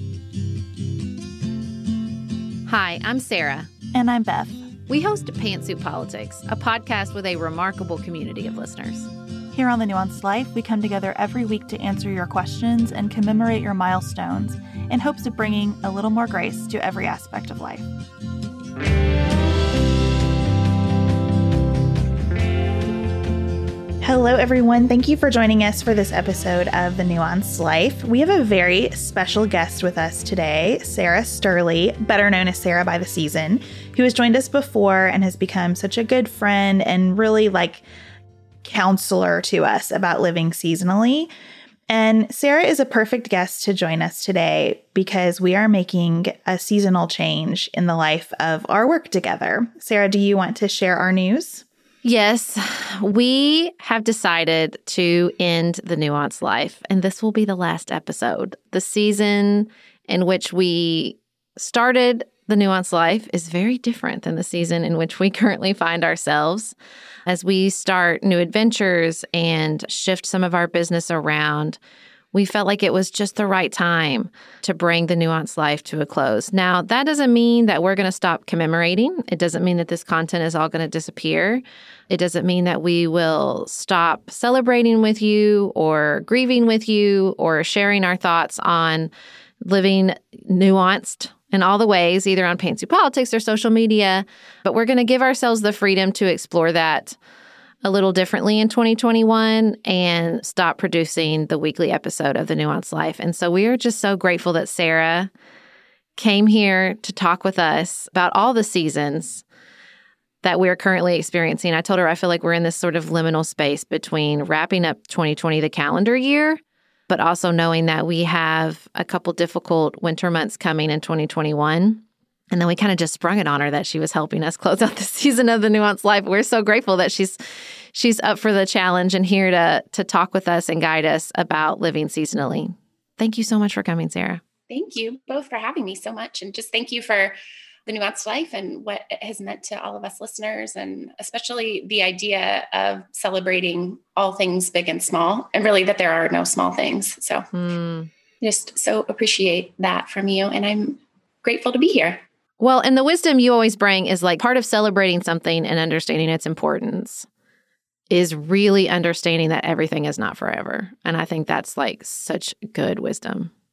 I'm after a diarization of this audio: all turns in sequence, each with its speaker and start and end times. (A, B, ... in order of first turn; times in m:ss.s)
0:02.7-0:03.7 A
0:03.9-0:04.7 B
0:04.9-0:09.1 A
0:09.5-0:17.8 B
0:24.0-0:37.8 B
0:38.6-0:41.3 B
0:41.9-0:51.6 B
0:52.0-1:06.8 A
1:07.3-1:11.8 A
1:12.3-1:29.1 A
1:29.6-1:37.2 A
1:37.8-1:45.3 A
1:46.2-1:49.4 A
1:50.4-2:07.4 A
2:07.9-2:14.4 A
2:14.7-2:17.3 C
2:17.9-2:27.5 C
2:27.5-2:28.1 A
2:28.4-2:32.2 C
2:32.6-2:37.3 A
2:38.1-2:43.5 A